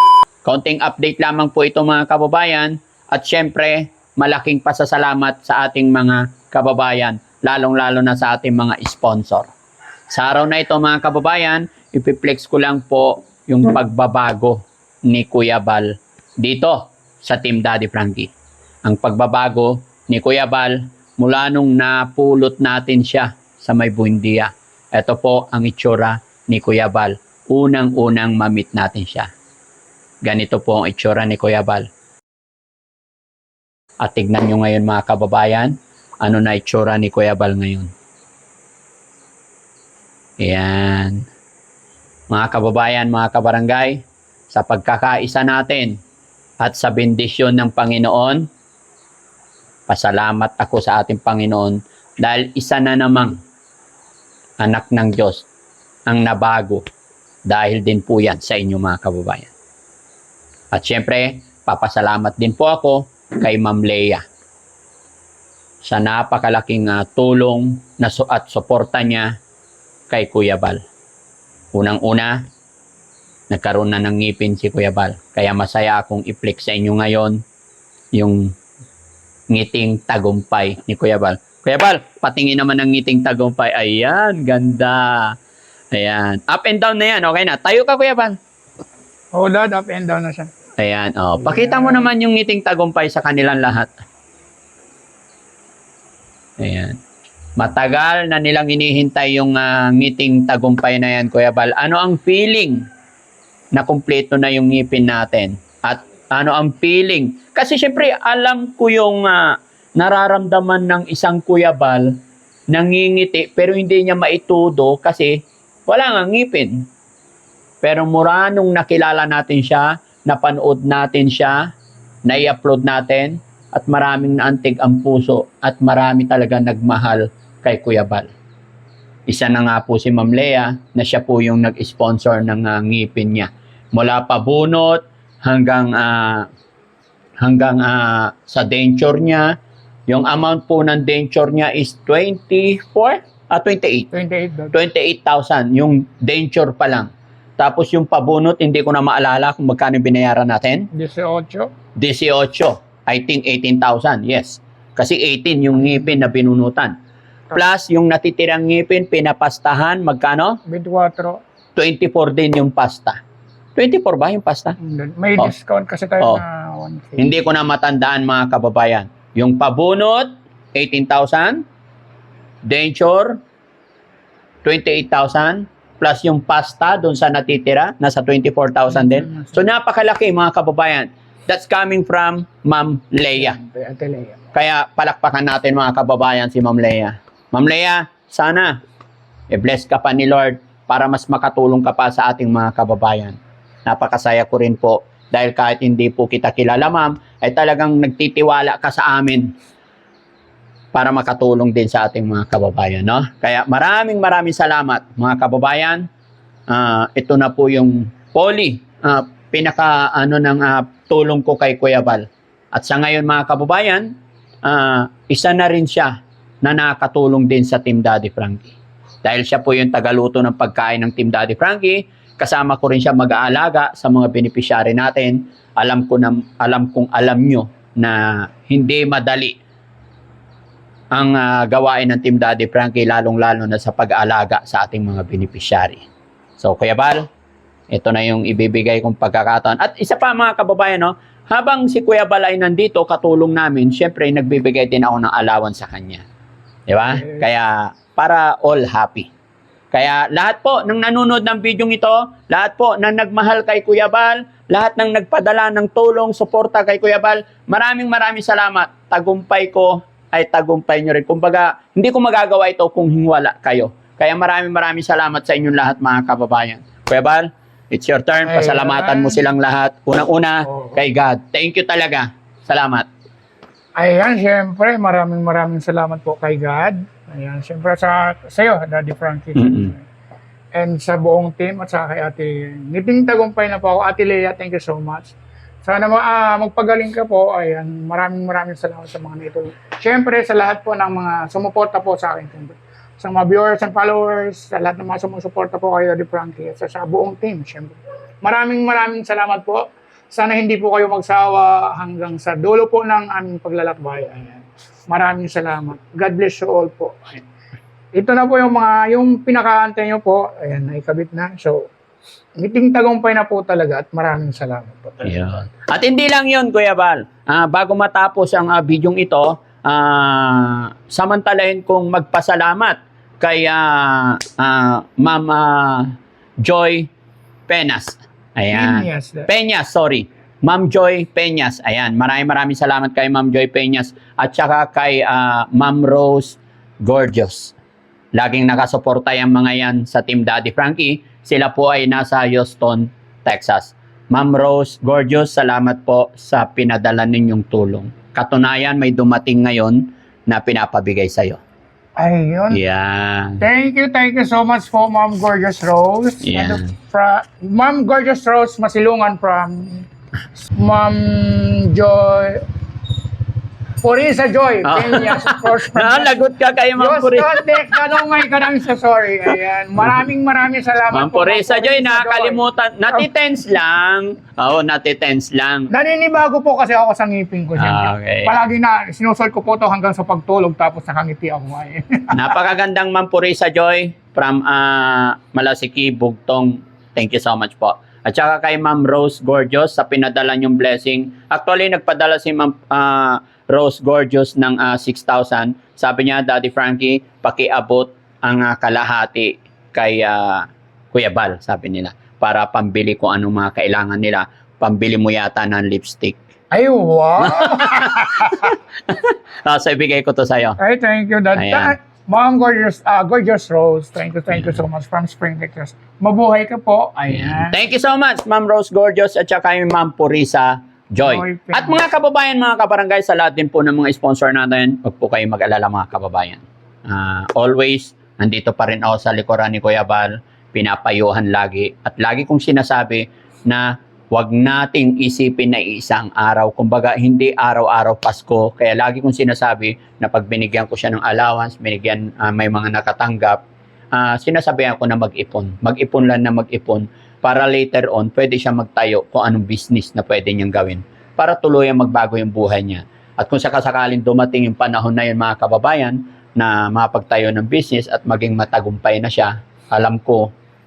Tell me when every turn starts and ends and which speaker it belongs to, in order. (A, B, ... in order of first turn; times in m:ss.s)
0:00.4-0:09.5 A
0:10.1-0:18.3 A
0:18.8-0:29.3 A
0:30.3-0:31.9 A
0:34.0-0:37.9 A
0:40.4-0:41.3 A
0:42.3-0:46.0 A
0:46.6-0:48.5 A
0:49.9-0:53.4 A
0:54.6-0:55.5 A
0:56.1-0:56.8 A
0:57.5-0:59.5 A
1:00.7-1:04.2 A
1:05.8-1:09.3 A
1:10.1-1:10.8 A
1:11.7-1:12.4 A
1:13.5-1:17.4 A
1:18.1-1:18.5 A
1:19.5-1:25.4 A
1:25.9-1:28.4 A
1:29.3-1:30.5 B
1:30.8-1:33.9 A
1:31.4-1:32.1 B
1:36.6-1:37.0 A
1:37.6-1:42.8 A
1:43.7-1:52.2 A
1:52.7-1:56.9 A
1:57.8-2:01.7 A
2:02.3-2:08.3 A
2:09.3-2:16.5 A
2:17.4-2:19.6 A
2:20.1-2:24.1 A
2:24.1-2:24.7 B
2:24.7-2:30.9 A
2:30.9-2:31.7 B
2:32.0-2:36.9 A
2:37.5-2:40.6 A
2:40.7-2:41.4 B
2:41.8-2:43.2 A
2:43.8-2:44.8 A
2:44.8-2:47.3 B
2:47.2-2:51.6 A
2:52.6-2:53.4 A
2:54.6-3:03.6 A
2:58.9-2:59.6 B
3:03.4-3:04.4 B
3:04.5-3:08.8 A
3:09.5-3:19.5 A
3:20.9-3:26.1 A
3:26.7-3:34.1 A
3:34.6-3:49.6 A
3:51.1-3:56.0 A
3:56.6-3:57.3 A
3:57.9-4:06.2 A
4:06.9-4:09.3 A
4:09.9-4:33.1 A
4:28.4-4:29.4 B
4:30.7-4:31.0 B
4:34.0-4:40.0 B
4:39.6-4:39.9 A
4:40.7-5:07.4 B
5:08.2-5:11.9 B
5:12.6-5:15.3 B
5:15.2-5:27.1 A
5:27.7-5:37.8 A
5:28.7-5:29.5 B
5:38.4-5:51.6 A
5:52.2-5:52.8 B
5:52.7-5:53.6 A
5:53.6-6:00.1 B
5:56.4-5:56.9 A
6:00.8-6:02.7 B
6:04.0-6:06.4 B
6:04.8-6:08.0 A
6:07.0-6:12.6 B
6:11.1-6:15.9 A
6:15.9-6:22.5 B
6:17.8-6:18.6 A
6:22.3-6:46.4 A
6:46.7-6:48.7 B
6:47.4-6:50.8 A
6:50.8-6:57.8 B
6:51.5-6:52.0 A
6:57.3-7:23.6 A
7:01.2-7:02.1 B
7:24.1-7:40.5 A